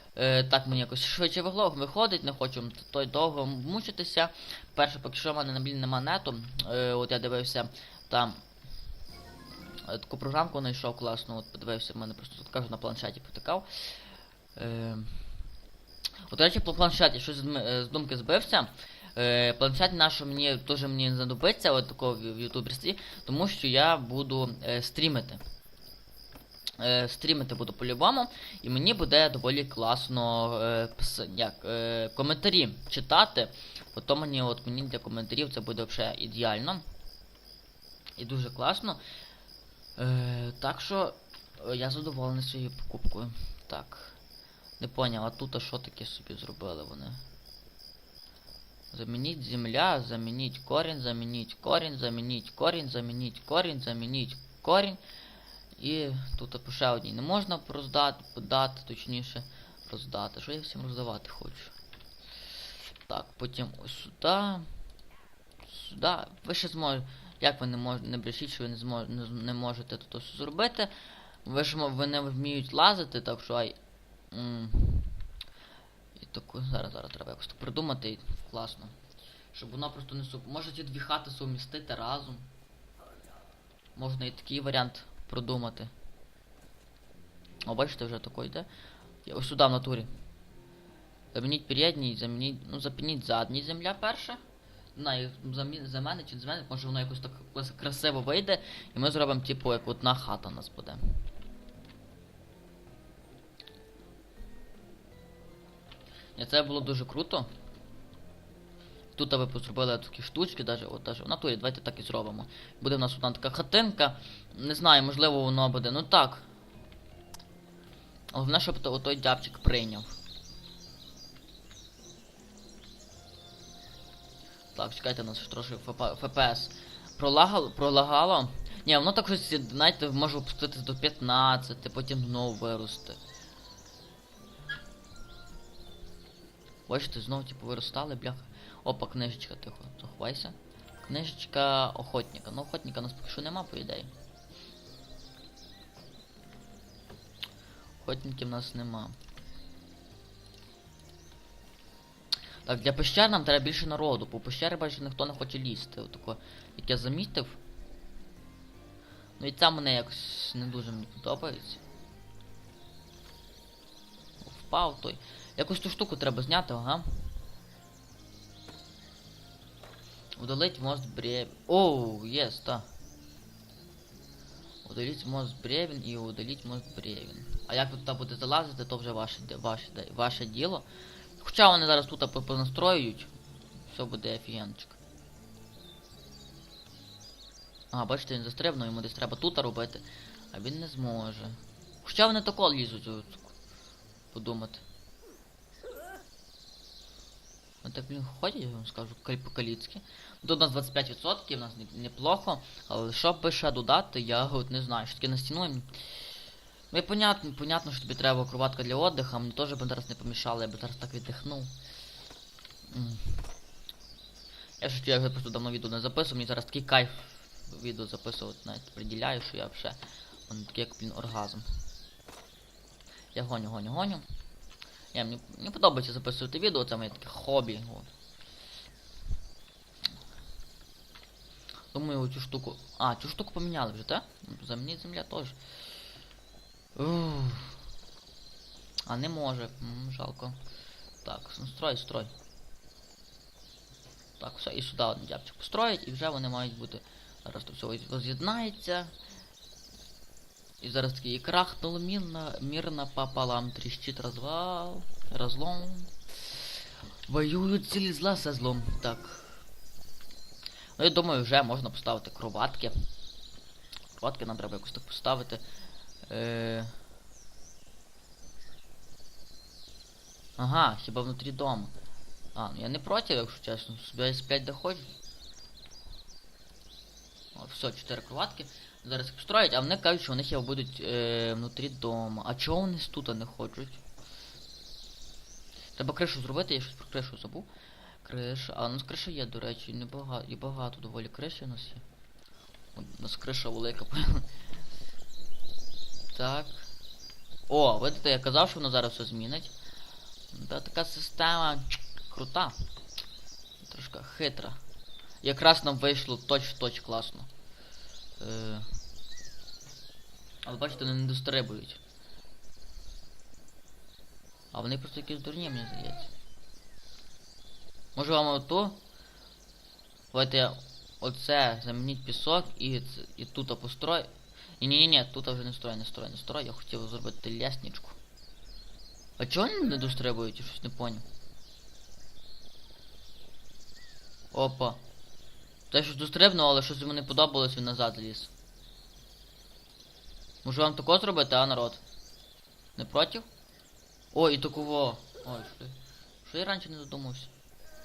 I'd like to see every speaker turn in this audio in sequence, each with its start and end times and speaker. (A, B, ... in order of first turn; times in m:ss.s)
0:00.1-0:08.4 A
0:09.9-0:13.7 A
0:14.6-0:15.2 A
0:16.3-0:25.4 A
0:26.8-0:36.8 A
0:38.2-0:39.0 A
0:40.0-0:44.2 A
0:44.8-0:47.2 A
0:48.9-0:55.0 A
0:55.8-1:01.7 A
1:03.0-1:04.7 A
1:05.6-1:10.9 A
1:11.4-1:13.8 A
1:14.3-1:15.1 A
1:16.2-1:19.0 A
1:19.5-1:22.5 A
1:24.0-1:25.9 A
1:27.6-1:28.7 A
1:29.2-1:30.1 A
1:31.3-1:34.4 A
1:34.9-1:41.1 A
1:46.4-1:47.5 A
1:49.1-1:56.4 A
1:58.3-2:00.1 A
2:04.7-2:13.2 A
2:16.9-2:24.1 A
2:28.0-2:29.1 A
2:32.6-2:37.6 A
2:39.4-2:41.8 A
2:44.4-2:47.0 A
2:50.4-2:52.8 A
2:54.8-3:00.9 A
3:01.4-3:03.3 A
3:03.9-3:05.0 A
3:07.9-3:13.5 A
3:14.3-3:14.8 A
3:17.8-3:25.9 A
3:26.9-3:31.7 A
3:32.9-3:33.4 A
3:34.8-3:41.7 A
3:43.3-3:44.2 A
3:45.1-3:48.1 A
3:51.9-3:55.6 A
3:57.0-3:57.8 A
3:59.0-4:00.6 A
4:01.2-4:02.3 A
4:04.4-4:09.1 A
4:10.8-4:16.7 A
4:17.3-4:19.6 A
4:21.0-4:22.9 A
4:24.1-4:25.6 A
4:26.3-4:26.9 A
4:30.6-4:31.9 A
4:32.5-4:35.1 A
4:37.5-4:44.0 A
4:46.0-4:47.7 A
4:48.2-4:52.0 A
4:52.9-4:54.5 A
4:56.3-4:56.9 A
4:57.7-4:59.7 A
5:00.5-5:02.8 A
5:03.8-5:04.8 A
5:05.4-5:07.5 A
5:08.4-5:08.9 A
5:10.6-5:12.0 A
5:14.7-5:16.3 A
5:18.2-5:19.0 A
5:20.3-5:24.3 A
5:24.8-5:28.2 A
5:29.4-5:31.2 A
5:34.5-5:35.0 A
5:35.9-5:38.5 A
5:40.6-5:42.0 A
5:43.0-5:43.5 A
5:44.3-5:47.5 A